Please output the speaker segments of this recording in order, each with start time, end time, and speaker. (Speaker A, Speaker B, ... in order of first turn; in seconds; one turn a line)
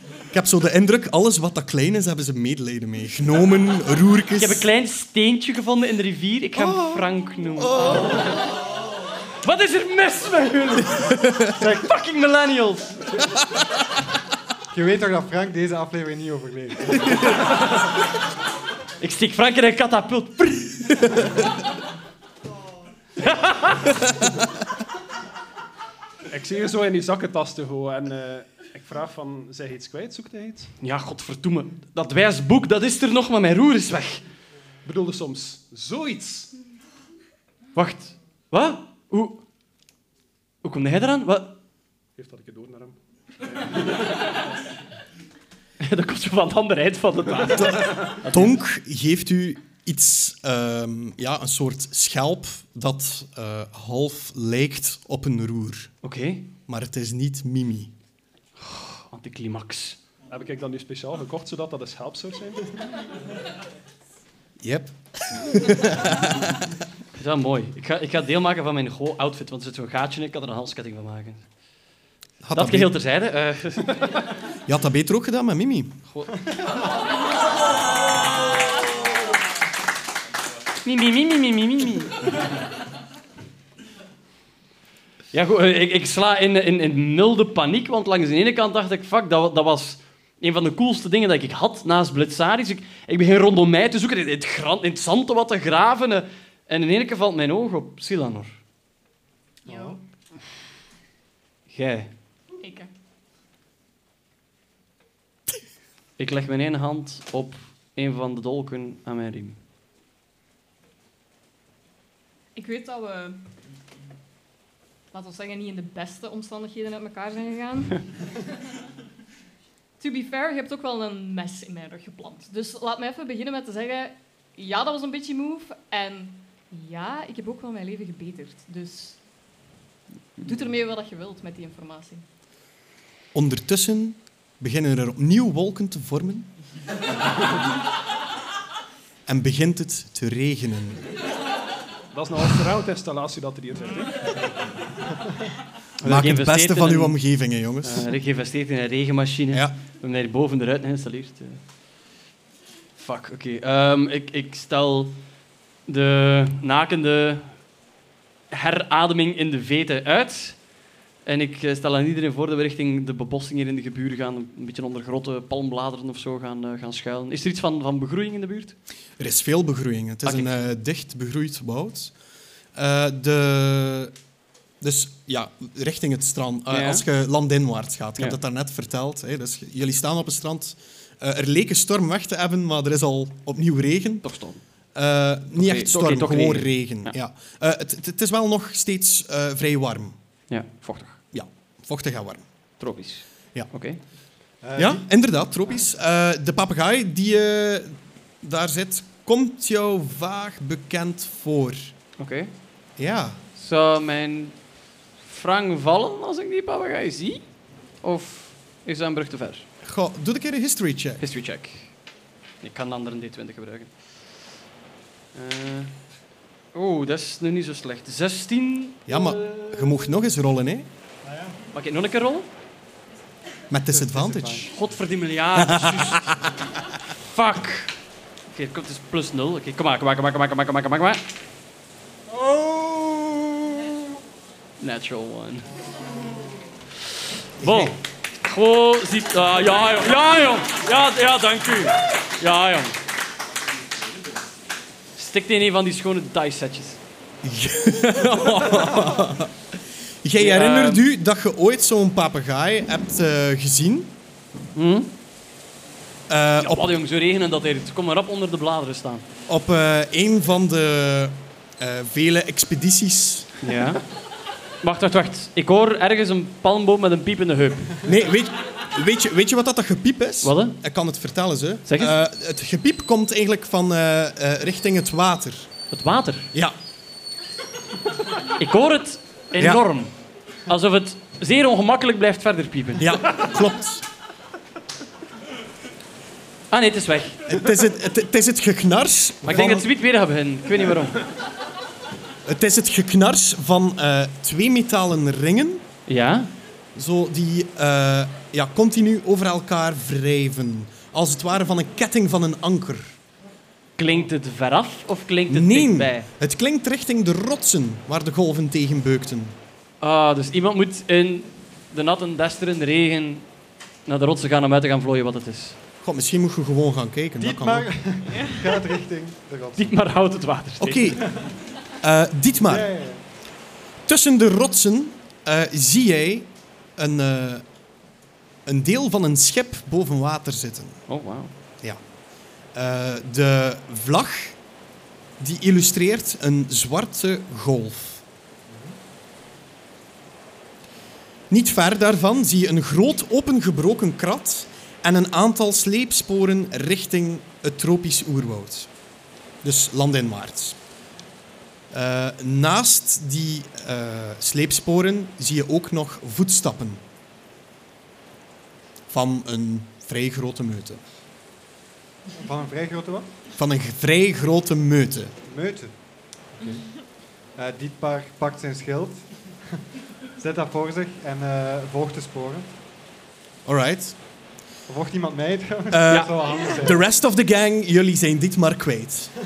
Speaker A: 0.3-4.7
Speaker B: 4.4-8.5
Speaker A: 6.6-8.3
Speaker B: 9.4-13.2
Speaker C: 11.6-11.9
Speaker C: 14.7-17.4
Speaker B: 19.0-21.4
Speaker B: 23.2-24.2
Speaker D: 26.3-30.7
Speaker B: 30.8-34.2
Speaker D: 34.9-36.5
Speaker B: 37.8-39.4
Speaker B: 40.6-41.6
Speaker D: 42.2-43.9
Speaker B: 45.8-48.5
Speaker A: 47.6-55.9
Speaker B: 56.0-56.5
Speaker A: 56.7-57.9
Speaker B: 58.6-60.0
Speaker D: 60.3-62.8
Speaker A: 64.6-66.6
Speaker B: 67.2-71.5
Speaker A: 72.4-72.9
Speaker B: 72.5-74.3
Speaker A: 74.7-76.0
Speaker B: 76.1-76.4
Speaker B: 80.8-82.5
Speaker B: 85.3-98.6
Speaker E: 99.7-100.0
Speaker C: 99.7-100.0
Speaker B: 101.7-102.1
Speaker E: 102.6-102.9
Speaker B: 106.2-109.6
Speaker E: 112.5-113.4
Speaker E: 115.1-118.0
Speaker E: 120.0-129.2
Speaker E: 130.4-132.2
Speaker A: 133.3-136.5
Speaker A: 139.3-141.1
Speaker D: 142.1-144.6
Speaker A: 146.0-148.1
Speaker B: 146.0-147.2
Speaker B: 147.8-151.6
Speaker A: 149.5-149.8
Speaker B: 153.0-155.2
Speaker B: 155.9-157.6
Speaker B: 158.5-160.6
Speaker B: 161.2-168.8
Speaker A: 169.2-172.1
Speaker B: 170.3-170.6
Speaker A: 172.8-174.2
Speaker A: 174.8-184.3
Speaker B: 176.7-177.1
Speaker B: 184.2-184.6
Speaker A: 184.9-190.2
Speaker B: 185.6-187.2
Speaker B: 190.5-191.2
Speaker A: 191.3-192.5
Speaker B: 192.8-194.0
Speaker C: 194.6-195.1
Speaker A: 194.8-201.9
Speaker B: 202.2-202.5
Speaker A: 203.0-203.4
Speaker B: 203.6-204.6
Speaker B: 205.2-207.4
Speaker B: 208.0-209.7
Speaker A: 209.8-211.2
Speaker B: 211.2-211.9
Speaker B: 212.6-214.5
Speaker B: 215.3-215.9
Speaker B: 216.7-219.9
Speaker A: 219.1-220.9
Speaker C: 221.3-221.6
Speaker B: 221.7-222.5
Speaker A: 223.7-224.7
Speaker C: 223.9-224.9
Speaker B: 224.7-226.4
Speaker A: 225.5-226.6
Speaker B: 227.2-227.9
Speaker B: 228.5-231.2
Speaker A: 233.0-233.5
Speaker B: 234.8-235.7
Speaker A: 237.6-238.0
Speaker B: 237.6-243.0
Speaker B: 245.2-247.0
Speaker A: 247.4-249.5
Speaker A: 250.2-254.2
Speaker B: 250.4-251.0
Speaker B: 254.8-255.1
Speaker A: 256.3-257.0
Speaker B: 256.6-259.2
Speaker A: 259.5-263.6
Speaker B: 263.6-264.0
Speaker B: 264.8-268.0
Speaker A: 268.0-275.7
Speaker B: 270.4-270.8
Speaker B: 271.9-272.2
Speaker B: 275.9-276.5
Speaker B: 278.5-280.1
Speaker A: 279.6-279.8
Speaker B: 280.7-283.2
Speaker A: 283.0-284.1
Speaker B: 286.7-287.5
Speaker A: 287.5-289.9
Speaker B: 289.4-291.3
Speaker A: 292.4-295.9
Speaker B: 296.1-296.5
Speaker A: 296.9-303.2
Speaker B: 304.0-306.3
Speaker A: 305.5-309.6
Speaker B: 310.0-313.5
Speaker B: 314.1-315.8
Speaker A: 316.0-317.9
Speaker C: 317.4-319.9
Speaker B: 319.8-321.2
Speaker A: 320.8-321.3
Speaker A: 322.0-322.9
Speaker C: 322.6-323.2
Speaker A: 324.1-327.6
Speaker A: 328.7-331.0
Speaker B: 331.1-331.5
Speaker A: 332.7-334.6
Speaker A: 335.4-338.2
Speaker C: 338.7-338.9
Speaker A: 341.5-348.9
Speaker A: 349.6-350.8
Speaker A: 351.9-357.0
Speaker A: 359.1-361.0
Speaker C: 362.4-363.3
Speaker A: 363.5-365.4
Speaker C: 365.5-365.9
Speaker C: 366.6-366.8
Speaker C: 367.6-369.8
Speaker C: 370.4-372.8
Speaker A: 373.6-374.2
Speaker C: 374.9-377.0
Speaker A: 375.9-379.3